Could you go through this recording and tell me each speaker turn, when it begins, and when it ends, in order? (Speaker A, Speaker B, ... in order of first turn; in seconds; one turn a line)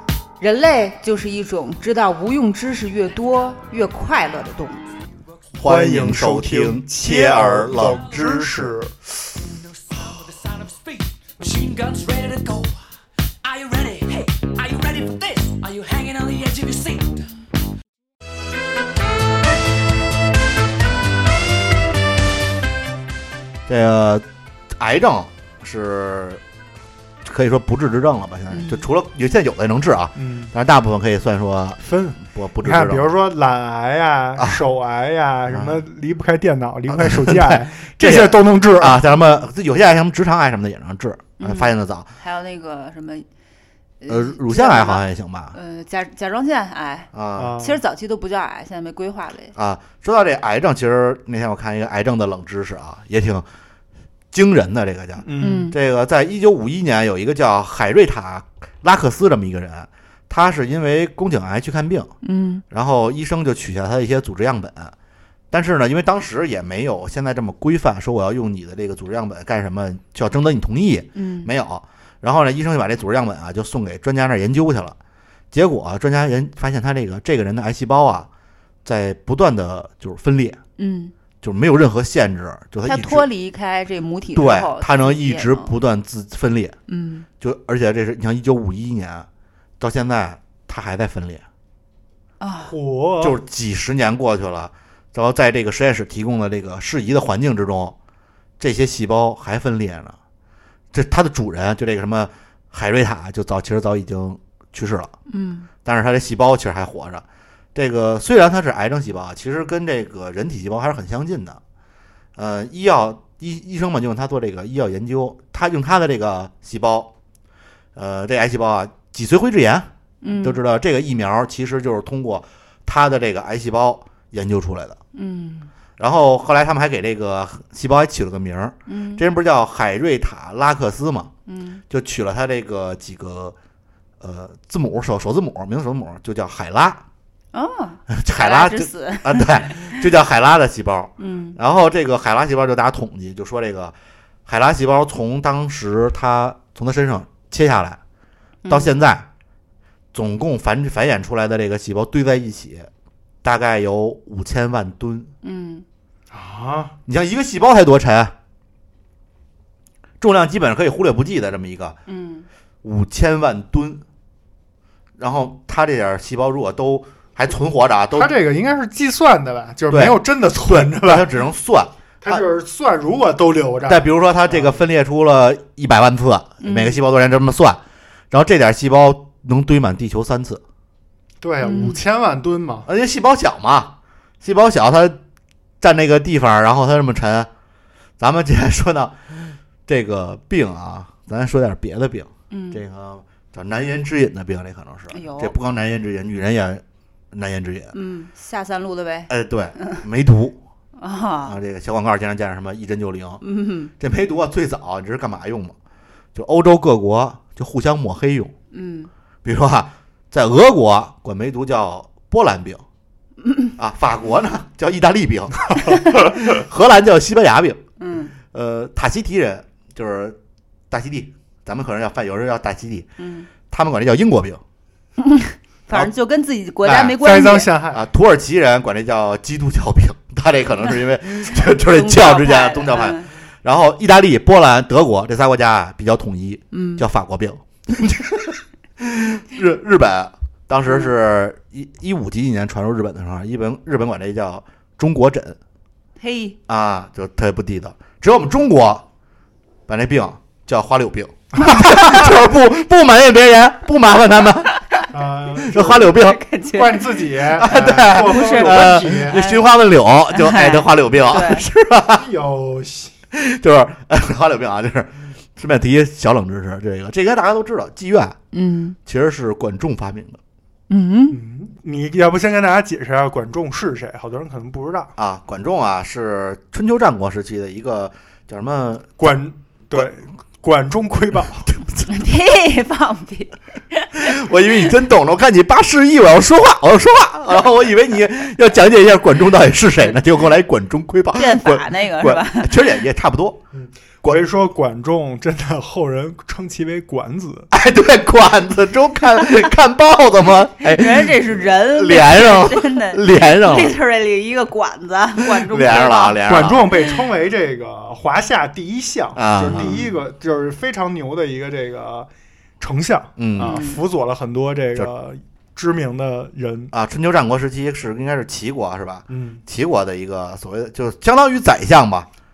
Speaker A: 0.4-4.8
Speaker B: 5.6-8.7
Speaker C: 5.6-9.1
Speaker D: 9.9-12.8
Speaker D: 13.4-17.2
Speaker B: 23.7-24.2
Speaker B: 24.8-26.4
Speaker B: 27.2-33.1
Speaker A: 28.5-28.8
Speaker C: 30.1-30.5
Speaker C: 31.8-39.0
Speaker B: 35.5-35.8
Speaker B: 36.9-42.1
Speaker A: 41.4-43.3
Speaker A: 44.0-47.1
Speaker B: 44.1-45.5
Speaker B: 47.1-47.5
Speaker C: 47.4-47.8
Speaker A: 47.6-49.5
Speaker B: 49.5-53.5
Speaker B: 54.3-62.1
Speaker C: 55.2-55.7
Speaker A: 55.4-55.8
Speaker A: 62.2-62.6
Speaker B: 62.7-64.9
Speaker B: 65.5-75.0
Speaker A: 71.1-71.5
Speaker B: 75.5-78.3
Speaker B: 78.8-80.6
Speaker A: 80.8-81.1
Speaker B: 81.4-83.2
Speaker A: 82.8-85.7
Speaker B: 84.3-86.8
Speaker A: 86.9-87.3
Speaker B: 87.4-89.3
Speaker B: 89.8-91.4
Speaker A: 92.4-92.7
Speaker C: 92.6-93.4
Speaker B: 93.2-98.0
Speaker B: 98.6-100.2
Speaker B: 100.9-105.1
Speaker A: 105.3-105.7
Speaker B: 105.8-111.6
Speaker B: 112.3-117.1
Speaker B: 118.0-119.9
Speaker A: 120.2-120.6
Speaker B: 120.4-125.0
Speaker A: 125.1-125.7
Speaker B: 126.0-131.3
Speaker A: 128.9-129.2
Speaker A: 131.5-131.8
Speaker B: 131.9-133.5
Speaker B: 134.2-137.0
Speaker A: 137.5-140.1
Speaker B: 138.1-143.9
Speaker A: 141.2-141.6
Speaker B: 144.4-148.0
Speaker A: 148.6-148.9
Speaker B: 148.7-149.3
Speaker B: 150.1-152.9
Speaker B: 153.4-155.3
Speaker A: 155.4-155.8
Speaker C: 156.3-156.9
Speaker B: 157.1-158.3
Speaker B: 160.2-162.0
Speaker A: 162.1-162.5
Speaker B: 162.8-164.0
Speaker B: 165.2-168.3
Speaker C: 168.1-171.3
Speaker B: 169.9-172.4
Speaker C: 172.2-174.8
Speaker B: 173.8-177.8
Speaker A: 176.6-177.0
Speaker B: 178.3-180.6
Speaker C: 181.4-182.9
Speaker A: 181.6-182.0
Speaker B: 182.8-185.2
Speaker B: 185.8-187.5
Speaker B: 188.2-197.9
Speaker A: 192.5-192.8
Speaker A: 195.1-195.5
Speaker A: 197.9-200.0
Speaker B: 199.3-200.6
Speaker A: 201.0-201.6
Speaker B: 201.4-203.4
Speaker A: 203.4-203.9
Speaker B: 204.0-205.7
Speaker B: 206.3-208.5
Speaker A: 208.7-209.1
Speaker B: 209.4-212.8
Speaker B: 213.8-217.8
Speaker A: 218.0-218.3
Speaker B: 218.5-220.4
Speaker B: 220.9-223.1
Speaker A: 223.2-223.5
Speaker B: 223.7-224.6
Speaker A: 225.2-227.7
Speaker B: 226.8-227.2
Speaker C: 227.2-228.0
Speaker B: 227.9-245.6
Speaker A: 231.5-233.3
Speaker A: 236.7-237.0
Speaker A: 246.2-246.6
Speaker B: 246.7-249.0
Speaker B: 249.9-254.7
Speaker C: 255.1-255.9
Speaker B: 255.6-256.4
Speaker A: 255.7-259.6
Speaker C: 256.7-259.4
Speaker B: 257.6-262.2
Speaker A: 260.3-261.7
Speaker C: 262.1-263.1
Speaker B: 263.3-268.4
Speaker A: 268.5-269.0
Speaker B: 269.1-270.4
Speaker A: 270.9-271.4
Speaker C: 271.3-275.1
Speaker B: 275.2-279.3
Speaker C: 279.2-281.7
Speaker A: 282.1-284.1
Speaker B: 284.2-293.6
Speaker A: 291.3-293.0
Speaker C: 293.7-297.7
Speaker B: 297.7-303.9
Speaker A: 300.8-306.4
Speaker B: 305.5-306.9
Speaker C: 306.4-312.3
Speaker B: 309.3-310.0
Speaker A: 309.6-310.1
Speaker C: 312.8-316.9
Speaker B: 313.4-313.8
Speaker A: 313.6-314.0
Speaker B: 316.9-322.3
Speaker C: 319.3-319.6